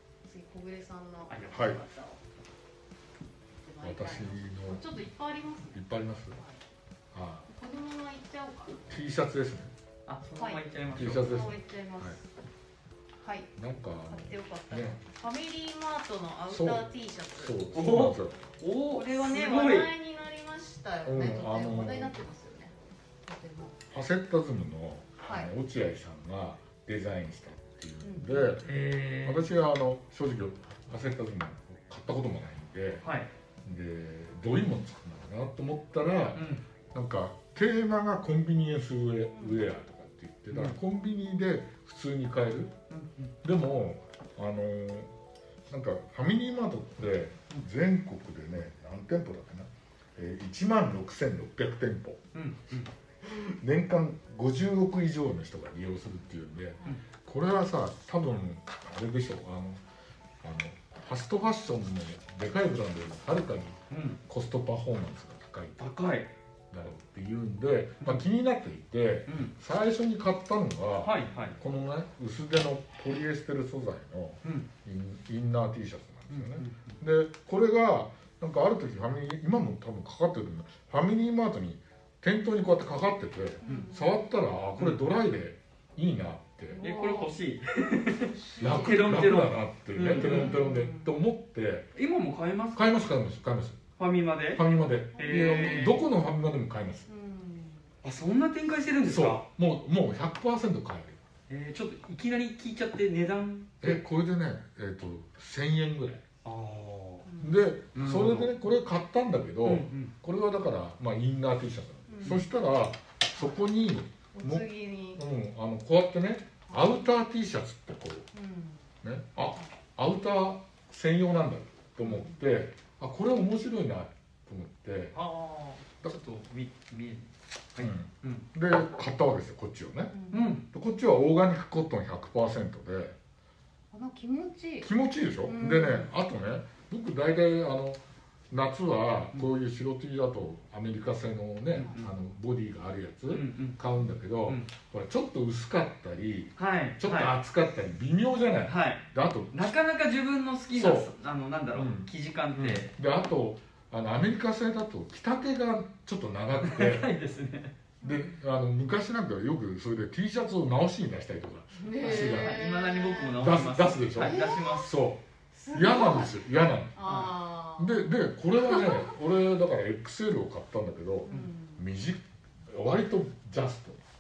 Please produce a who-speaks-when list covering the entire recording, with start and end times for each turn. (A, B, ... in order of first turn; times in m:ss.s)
0:00.2-0:02.2 A
0:01.3-0:01.6 B
0:01.5-0:01.8 C
0:03.6-0:06.7 A
0:03.8-0:04.8 C
0:05.7-0:06.4 C
0:07.1-0:07.5 C
0:07.5-0:08.8 A
0:08.9-0:09.7 C
0:10.1-0:11.4 B
0:10.4-0:12.2 A
0:10.9-0:12.2 C
0:13.2-0:13.5 A
0:13.6-0:15.0 C
0:14.0-0:17.6 A
0:16.5-0:16.9 C
0:17.4-0:18.4 C
0:17.7-0:19.9 B
0:18.9-0:22.7 A
0:21.0-0:22.2 C
0:23.2-0:23.8 A
0:23.9-0:33.1 C
0:25.2-0:25.5 A
0:28.0-0:28.6 A
0:28.6-0:29.5 B
0:33.0-0:33.3 B
0:33.6-0:42.8 C
0:36.4-0:36.6 B
0:40.5-0:40.8 B
0:42.9-0:43.3 B
0:43.4-0:45.1 C
0:45.7-0:52.2 C
0:52.3-0:52.9 B
0:53.2-0:59.8 C
1:00.4-1:05.9 C
1:03.9-1:04.2 B
1:05.8-1:06.3 B
1:06.7-1:26.8 C
1:09.3-1:09.5 B
1:11.0-1:11.6 B
1:14.4-1:14.7 B
1:16.3-1:17.0 B
1:23.6-1:24.1 A
1:24.8-1:25.0 B
1:26.7-1:27.3 A
1:26.8-1:30.7 B
1:28.1-1:29.4 A
1:28.6-1:31.9 C
1:30.1-1:31.2 A
1:32.0-1:33.1 B
1:32.7-1:33.9 C
1:34.0-1:34.6 B
1:34.6-1:37.1 C
1:35.1-1:36.1 A
1:35.2-1:36.0 B
1:37.1-1:37.9 A
1:38.0-1:39.4 B
1:39.0-1:41.2 C
1:41.5-1:44.0 B
1:43.8-1:46.2 C
1:46.4-1:47.3 B
1:47.2-1:47.6 A
1:47.4-1:58.3 C
1:47.9-1:48.5 B
1:49.6-1:50.1 B
1:52.1-1:52.5 A
1:54.3-1:55.2 A
1:56.7-1:57.0 A
1:58.3-1:58.9 A
1:59.0-2:05.2 C
2:02.0-2:02.4 A
2:05.1-2:08.5 B
2:07.8-2:10.1 C
2:10.1-2:10.5 A
2:10.3-2:10.7 B
2:10.7-2:13.2 C
2:13.9-2:14.9 A
2:14.8-2:29.7 C
2:15.4-2:16.1 A
2:21.7-2:22.1 B
2:21.8-2:22.1 A
2:23.3-2:23.8 B
2:26.6-2:27.3 B
2:28.7-2:32.9 B
2:30.7-2:31.1 C
2:31.7-2:37.1 C
2:36.6-2:37.7 B
2:38.0-2:38.4 A
2:38.0-2:42.6 C
2:41.8-2:43.4 A
2:42.0-2:44.9 B
2:43.4-2:47.0 C
2:44.2-2:44.9 A
2:45.5-2:49.1 A
2:47.0-2:47.4 B
2:47.8-2:54.0 C
2:51.3-2:51.9 A